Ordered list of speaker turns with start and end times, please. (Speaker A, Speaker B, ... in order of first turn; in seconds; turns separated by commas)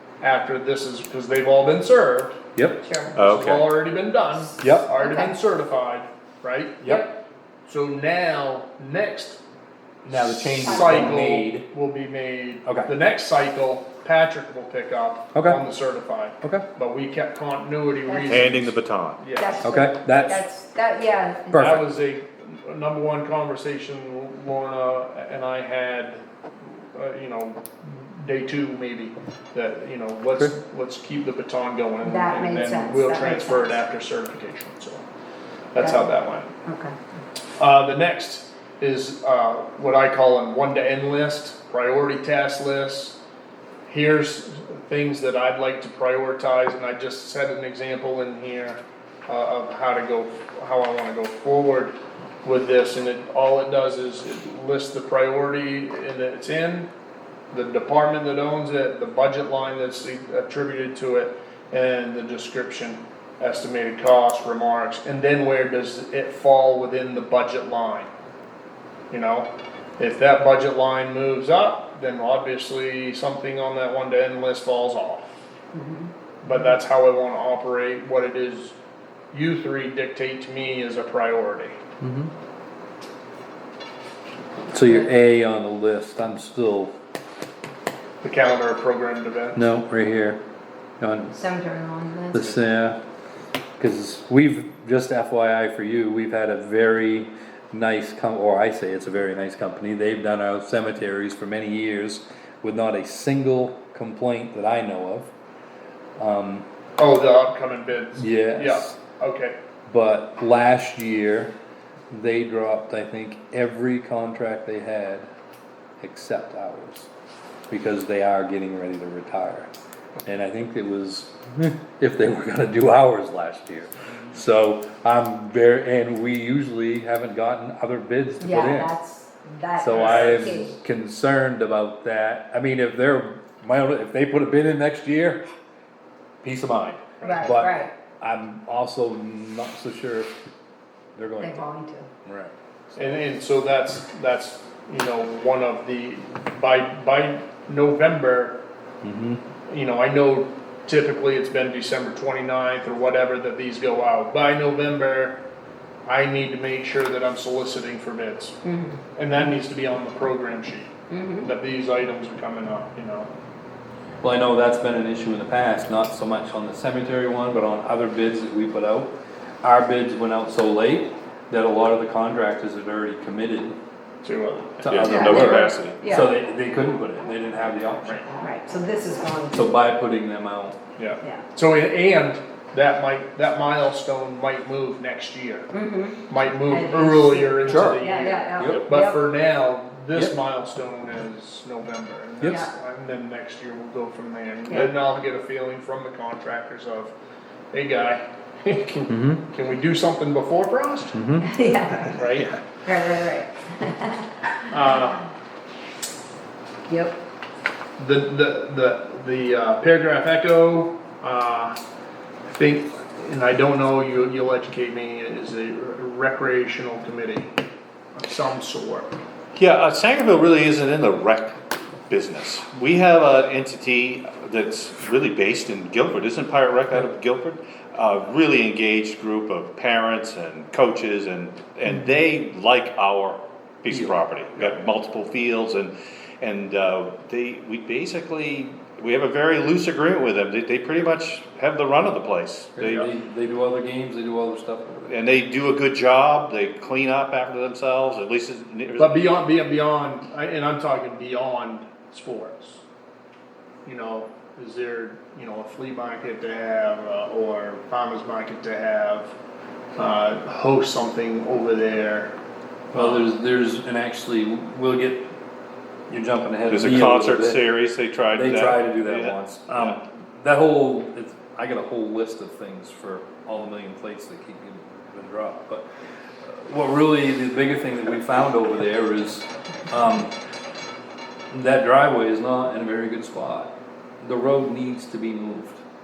Speaker A: 0.2-2.4, Speaker B: 2.8-3.2, Speaker C: 3.1-3.7, Speaker A: 3.2-7.0, Speaker D: 4.6-4.9, Speaker B: 5.0-5.3, Speaker A: 7.7-9.4, Speaker D: 10.0-11.7, Speaker A: 10.1-20.4, Speaker B: 10.6-11.1, Speaker D: 12.6-12.9, Speaker D: 15.3-15.6, Speaker B: 18.1-18.5, Speaker C: 18.2-19.2, Speaker B: 19.4-21.7, Speaker D: 19.6-20.4, Speaker D: 21.5-21.8, Speaker A: 21.5-35.0, Speaker B: 32.0-33.8, Speaker A: 35.7-36.5, Speaker B: 35.8-36.0, Speaker B: 36.6-36.9, Speaker A: 37.5-43.2, Speaker A: 43.9-56.9, Speaker A: 57.5-68.1, Speaker A: 69.1-75.4, Speaker B: 75.7-76.7, Speaker A: 76.4-78.8, Speaker A: 79.3-81.8, Speaker D: 82.0-82.3, Speaker D: 84.7-86.9, Speaker A: 88.2-89.7, Speaker D: 89.5-90.4, Speaker D: 91.0-91.4, Speaker B: 91.3-92.6, Speaker D: 92.3-93.0, Speaker D: 93.8-105.3, Speaker D: 106.2-106.7, Speaker A: 107.0-109.5, Speaker D: 108.2-109.0, Speaker D: 109.9-111.5, Speaker D: 112.1-115.3, Speaker D: 116.0-117.1, Speaker D: 117.7-119.7, Speaker D: 120.2-128.9, Speaker B: 128.4-130.8, Speaker D: 129.8-135.4, Speaker A: 129.9-130.4, Speaker D: 136.4-140.3, Speaker A: 137.2-137.5, Speaker B: 137.2-137.9, Speaker D: 141.2-141.7, Speaker B: 141.4-142.1, Speaker D: 142.2-142.5, Speaker A: 142.9-148.6, Speaker D: 149.0-149.4, Speaker A: 149.7-155.4, Speaker A: 156.1-158.6, Speaker B: 158.6-159.0, Speaker A: 159.2-163.3, Speaker B: 161.1-161.5, Speaker D: 164.2-173.8, Speaker A: 174.2-175.1, Speaker C: 174.8-176.0, Speaker D: 174.8-178.3, Speaker B: 175.0-176.3, Speaker B: 178.3-179.7, Speaker D: 179.5-180.8, Speaker A: 181.0-185.7, Speaker B: 185.7-189.2, Speaker A: 186.3-197.1, Speaker D: 187.6-188.0, Speaker D: 188.6-188.9, Speaker B: 192.4-192.7, Speaker A: 197.7-201.2, Speaker D: 199.1-199.4, Speaker D: 201.2-201.4, Speaker B: 201.4-202.2, Speaker A: 202.1-202.5, Speaker C: 202.3-202.6, Speaker B: 202.8-204.3, Speaker A: 204.7-205.2, Speaker B: 206.9-207.2, Speaker A: 208.0-211.8, Speaker A: 212.5-217.5, Speaker A: 218.1-219.2, Speaker C: 219.5-243.1, Speaker D: 233.9-234.2, Speaker D: 242.8-245.2, Speaker C: 245.1-249.2, Speaker A: 249.0-252.8, Speaker A: 253.8-259.3, Speaker A: 260.0-262.3, Speaker D: 262.9-265.3, Speaker D: 266.1-267.7, Speaker C: 266.7-270.0, Speaker D: 268.3-275.8, Speaker D: 276.4-280.3, Speaker D: 281.5-285.8